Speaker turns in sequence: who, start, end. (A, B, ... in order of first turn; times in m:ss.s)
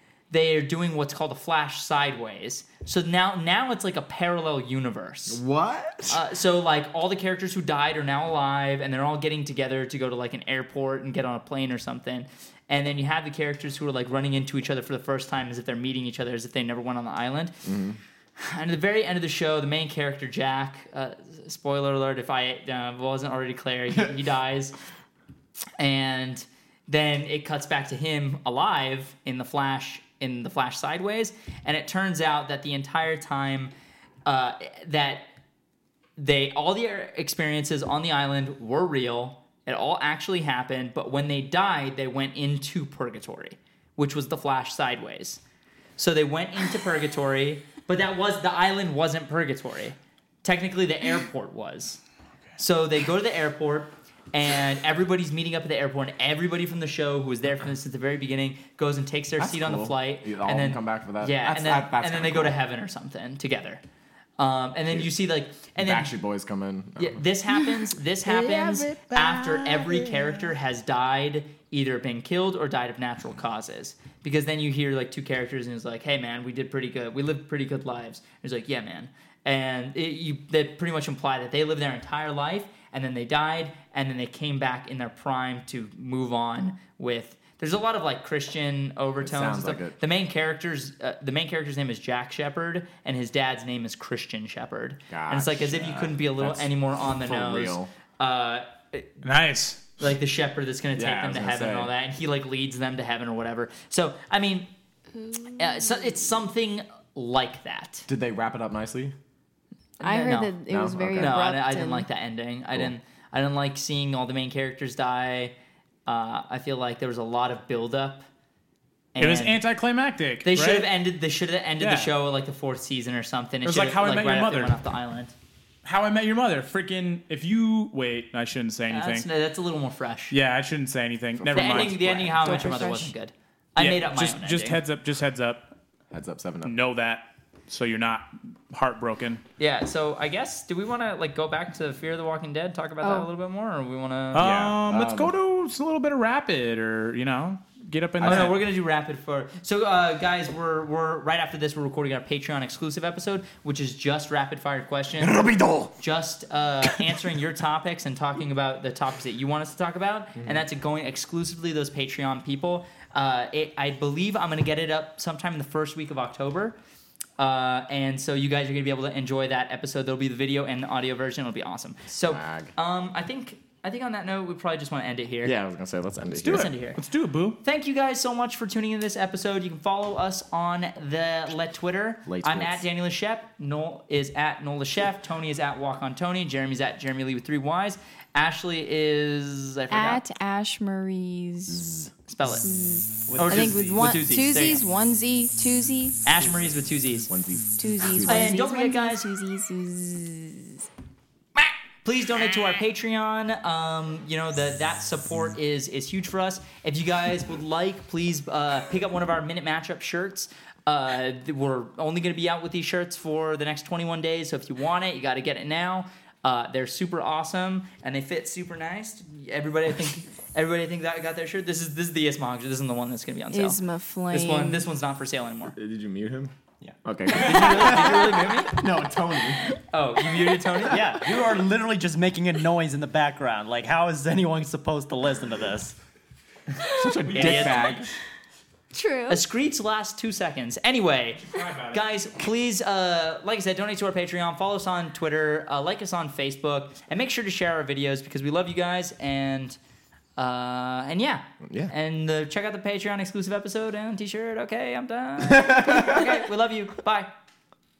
0:00.3-0:05.4 A
0:05.3-0:06.2 B
0:06.1-0:17.7 A
0:17.6-0:18.0 B
0:18.4-0:24.8 A
0:25.8-0:33.7 A
0:34.3-0:35.3 A
0:36.2-0:45.4 A
0:46.0-0:52.0 A
0:52.6-1:03.8 A
0:59.4-1:02.6 B
1:04.4-1:06.1 A
1:05.8-1:07.2 B
1:07.0-1:39.2 A
1:07.6-1:10.5 C
1:29.2-1:30.0 B
1:35.1-1:37.9 B
1:39.2-1:39.8 D
1:40.0-1:44.7 A
1:41.0-1:41.9 B
1:45.2-1:46.2 C
1:45.6-1:48.1 A
1:48.1-1:49.2 B
1:50.0-1:50.6 A
1:50.0-1:52.1 C
1:50.7-1:51.4 B
1:51.2-1:55.6 A
1:56.1-1:58.2 A
1:59.1-1:59.6 A
1:59.2-2:00.9 D
2:00.4-2:05.3 A
2:01.8-2:02.1 D
2:03.6-2:04.8 D
2:05.8-2:09.3 D
2:08.9-2:10.4 A
2:10.3-2:12.0 D
2:11.4-2:12.8 B
2:11.5-2:14.8 A
2:12.4-2:13.1 C
2:13.8-2:15.7 D
2:16.1-2:16.8 B
2:16.6-2:19.4 D
2:19.6-2:24.6 A
2:23.0-2:23.3 C
2:24.3-2:28.6 D
2:24.4-2:25.4 B
2:28.2-2:28.6 B
2:28.2-2:35.4 A
2:35.2-2:35.9 B
2:36.0-2:46.8 A
2:47.4-2:55.5 A
2:52.3-2:52.7 B
2:55.4-2:56.7 B
2:56.3-2:57.6 D
2:56.4-2:57.0 A
2:57.6-3:10.2 A
3:02.3-3:02.8 B
3:09.9-3:12.0 C
3:12.3-3:12.7 A
3:12.6-3:16.2 C
3:13.3-3:14.2 E
3:13.4-3:14.8 A
3:16.2-3:17.3 A
3:17.3-3:18.6 B
3:17.8-3:20.9 C
3:18.2-3:19.3 A
3:22.0-3:45.8 A
3:43.5-3:44.9 C
3:45.8-3:46.5 B
3:47.0-3:49.7 B
3:47.3-3:48.8 A
3:49.9-3:51.0 A
3:50.9-3:56.0 E
3:56.8-3:57.2 C
3:56.9-3:58.1 B
3:57.2-3:58.0 D
3:57.3-3:58.0 A
3:58.9-3:59.4 C
3:59.3-4:09.8 A
4:01.5-4:02.0 D
4:10.4-4:17.3 A
4:11.6-4:11.9 B
4:15.4-4:16.3 B